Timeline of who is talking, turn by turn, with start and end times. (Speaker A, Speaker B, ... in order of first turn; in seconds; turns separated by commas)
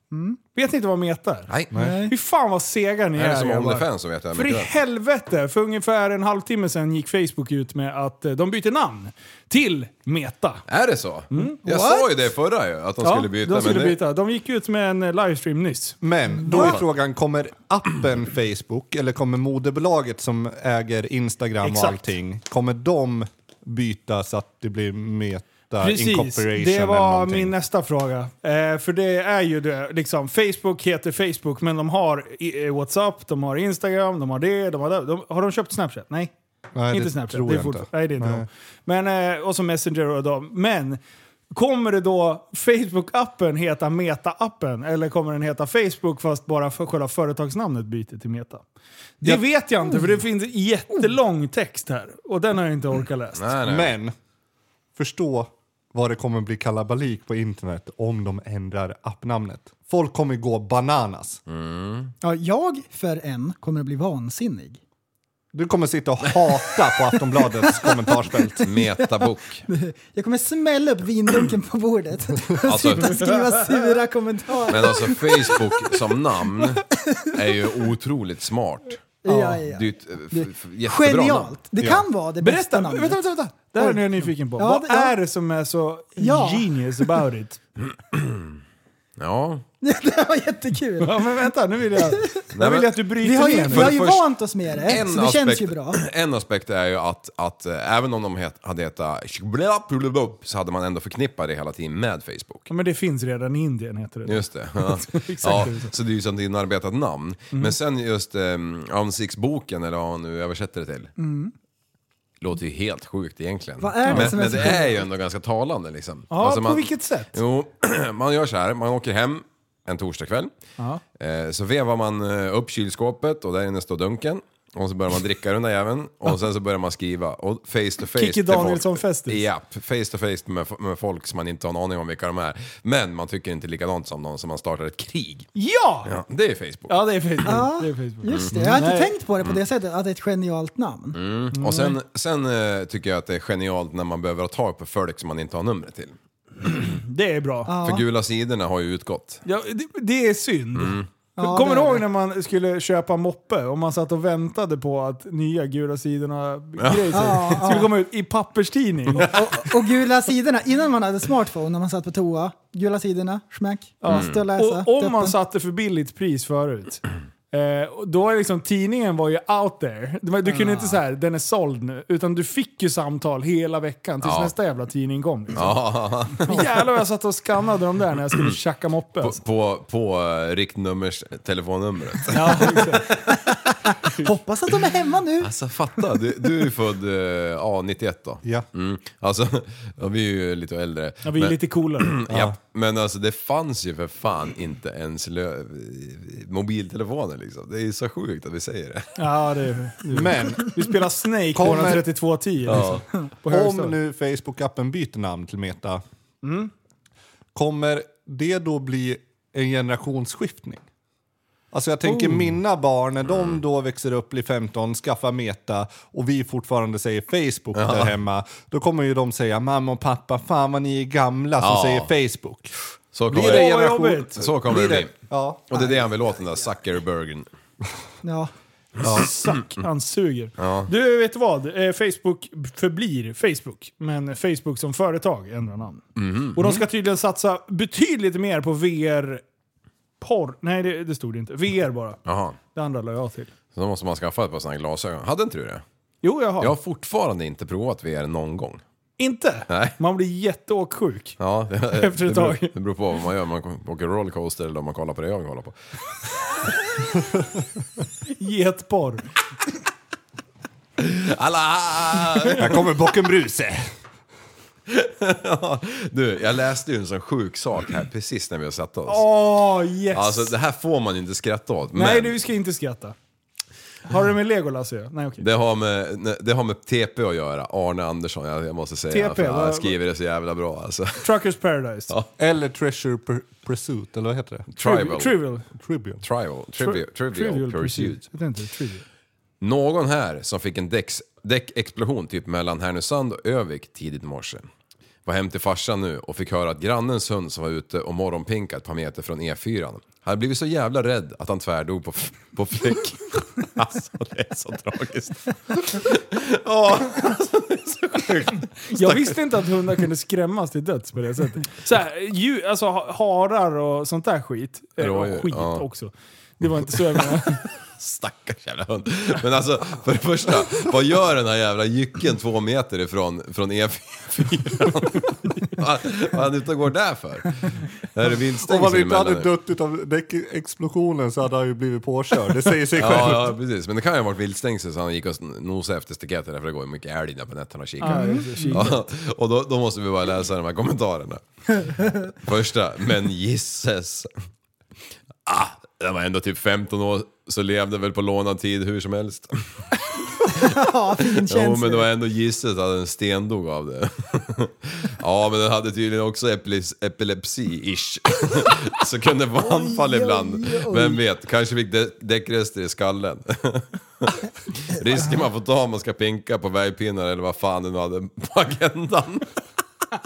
Speaker A: 0.1-0.4, Speaker B: 0.5-1.5, Speaker C: 1.5-1.7, Speaker A: 1.7-2.1, Speaker B: 2.1-10.6, Speaker C: 3.1-4.7, Speaker C: 10.7-14.0, Speaker B: 11.3-11.6, Speaker A: 11.6-12.0, Speaker B: 13.0-16.7, Speaker D: 16.0-27.6, Speaker C: 16.5-16.8, Speaker B: 21.6-22.0, Speaker B: 25.8-36.3, Speaker D: 36.7-38.5, Speaker B: 36.9-41.0, Speaker B: 41.5-48.6, Speaker B: 49.2-53.5, Speaker C: 53.4-53.9, Speaker D: 53.6-54.1, Speaker D: 54.9-61.4, Speaker C: 61.5-62.1, Speaker A: 62.2-64.8, Speaker D: 65.5-68.7, Speaker A: 68.6-75.7, Speaker C: 68.6-69.6, Speaker C: 72.6-73.3, Speaker C: 74.7-79.1, Speaker A: 79.2-84.0, Speaker D: 79.3-79.6, Speaker C: 79.7-81.5, Speaker B: 82.4-87.6, Speaker A: 84.5-85.1, Speaker A: 86.2-86.7, Speaker C: 87.8-88.6, Speaker C: 89.2-89.6, Speaker A: 89.8-91.2, Speaker B: 91.0-94.0, Speaker C: 92.5-93.1, Speaker A: 93.2-96.0, Speaker C: 93.7-102.7, Speaker B: 102.7-105.9, Speaker C: 104.3-111.1, Speaker A: 111.2-111.5, Speaker C: 112.4-120.5, Speaker A: 113.8-115.0, Speaker B: 114.1-114.4, Speaker B: 116.3-117.4, Speaker C: 121.2-135.5, Speaker B: 128.1-129.4, Speaker B: 135.5-136.2, Speaker C: 136.0-137.0, Speaker B: 136.9-139.1, Speaker A: 137.4-141.2, Speaker C: 138.3-138.6, Speaker C: 141.1-146.2, Speaker B: 141.5-142.0, Speaker B: 146.7-147.7, Speaker A: 147.7-148.0, Speaker C: 147.8-149.4, Speaker B: 149.4-159.3, Speaker C: 150.8-151.1, Speaker A: 151.4-152.0, Speaker C: 156.8-157.6, Speaker A: 157.1-157.9, Speaker A: 159.2-165.3, Speaker B: 164.0-175.9, Speaker C: 164.1-164.4, Speaker A: 170.5-170.9, Speaker C: 174.2-174.5, Speaker C: 175.5-176.8, Speaker B: 176.4-179.4, Speaker C: 179.2-183.0, Speaker B: 182.3-183.1, Speaker A: 183.3-185.5, Speaker C: 185.4-199.1, Speaker B: 191.2-192.2, Speaker D: 192.3-192.5, Speaker B: 199.2-203.9, Speaker D: 200.1-200.8, Speaker D: 201.5-202.1, Speaker C: 202.7-203.0, Speaker D: 203.4-206.0, Speaker B: 206.4-206.7, Speaker D: 207.5-210.8, Speaker D: 211.7-222.7, Speaker C: 212.2-212.5, Speaker C: 213.3-213.6, Speaker C: 217.7-218.1, Speaker C: 221.6-222.1, Speaker C: 223.1-225.1, Speaker D: 223.3-225.9, Speaker B: 223.4-224.4, Speaker C: 225.7-227.5, Speaker A: 228.2-228.5, Speaker C: 229.0-229.6, Speaker B: 229.0-236.0, Speaker C: 230.6-230.9, Speaker C: 236.2-236.8, Speaker B: 236.5-239.4, Speaker B: 240.2-243.5, Speaker C: 242.2-242.6, Speaker C: 243.7-245.8, Speaker B: 246.2-246.8, Speaker C: 246.6-248.8, Speaker B: 249.2-251.4, Speaker C: 249.7-250.0, Speaker C: 251.4-255.7, Speaker B: 251.9-252.7, Speaker B: 258.3-259.2, Speaker C: 261.0-262.8, Speaker D: 262.6-263.8, Speaker C: 264.9-269.3, Speaker B: 269.1-270.5, Speaker C: 270.1-272.3, Speaker B: 271.9-273.1, Speaker B: 274.1-275.4, Speaker C: 275.4-281.3, Speaker B: 279.1-280.0, Speaker B: 281.2-282.1, Speaker D: 282.4-284.6, Speaker C: 284.7-285.4, Speaker B: 284.8-285.6, Speaker D: 285.8-286.2, Speaker C: 286.2-288.2, Speaker B: 286.8-289.0, Speaker C: 289.6-294.7, Speaker C: 295.2-309.4, Speaker B: 308.9-317.6, Speaker C: 315.0-315.9, Speaker C: 317.1-329.5, Speaker D: 328.6-333.5, Speaker C: 332.9-344.3, Speaker B: 338.0-339.0, Speaker A: 338.0-338.8, Speaker C: 345.4-349.8, Speaker A: 350.4-352.1, Speaker C: 351.4-369.5, Speaker A: 359.6-361.2